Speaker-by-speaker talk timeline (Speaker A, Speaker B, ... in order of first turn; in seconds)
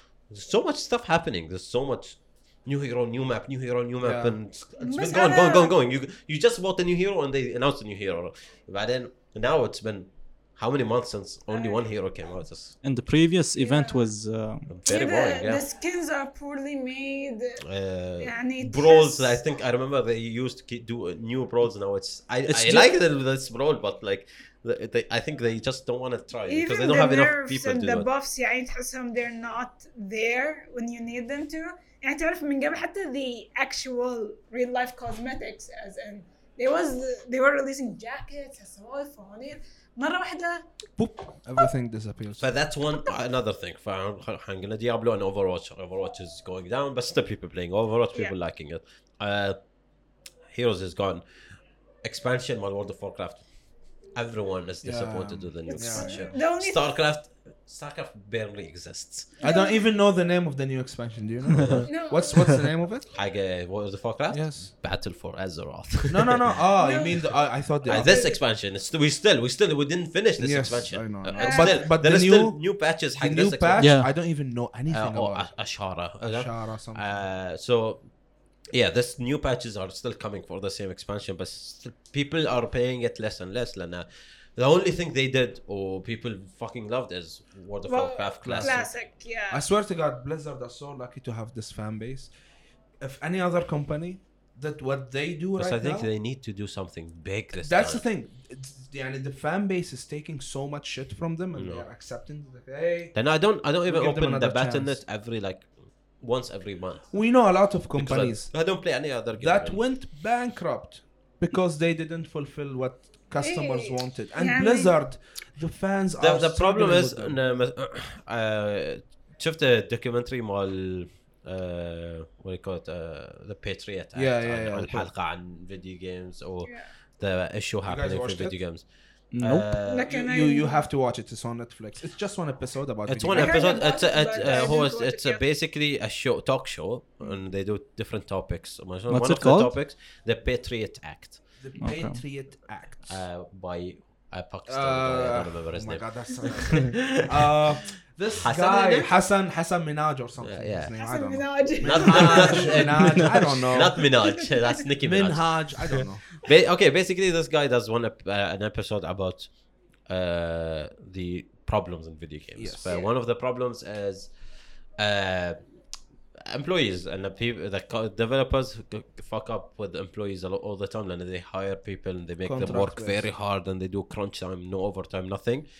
Speaker A: 0.3-12.8, 14.7-15.6, 17.6-28.1, 42.4-49.6, 50.5-51.2, 52.0-53.5, 54.1-59.3, 61.6-61.9, 63.1-66.5, 67.8-74.0, 74.9-78.1, 78.7-88.9, 95.6-98.0, 101.5-101.8, 103.2-107.1, 108.0-109.8, 116.2-128.9, 129.4-130.1, 133.1-141.4, 143.1-147.5, 148.4-149.1, 150.4-151.0, 151.8-159.5, 160.1-164.3, 165.0-165.6, 166.5-175.7
Speaker B: 4.0-4.4, 41.0-42.5, 54.8-56.3, 59.4-63.1, 64.3-64.7, 66.1-68.2, 70.4-72.6, 73.2-75.5, 76.3-77.1, 88.4-88.9, 89.5-92.3, 93.0-96.1, 97.6-103.2, 103.9-105.0, 107.1-108.6, 109.4-117.4, 124.2-125.1, 127.9-128.6, 130.0-133.8, 141.6-143.2, 144.7-154.0, 155.0-156.3, 162.6-162.9, 172.4-173.3
Speaker C: 4.8-5.7, 11.5-11.8, 13.6-14.1, 14.8-17.6, 18.2-19.4, 26.5-40.7, 55.7-56.9, 59.4-59.8, 61.9-62.5, 66.8-67.2, 67.9-68.4, 71.4-71.8, 87.9-89.6, 113.4-115.0, 126.7-126.9, 129.9-130.8, 133.3-135.4, 151.0-152.9, 154.1-154.8
Speaker D: 12.8-14.7, 22.5-22.9, 73.8-74.1, 129.3-129.7, 139.1-139.7, 141.8-142.2, 153.0-153.3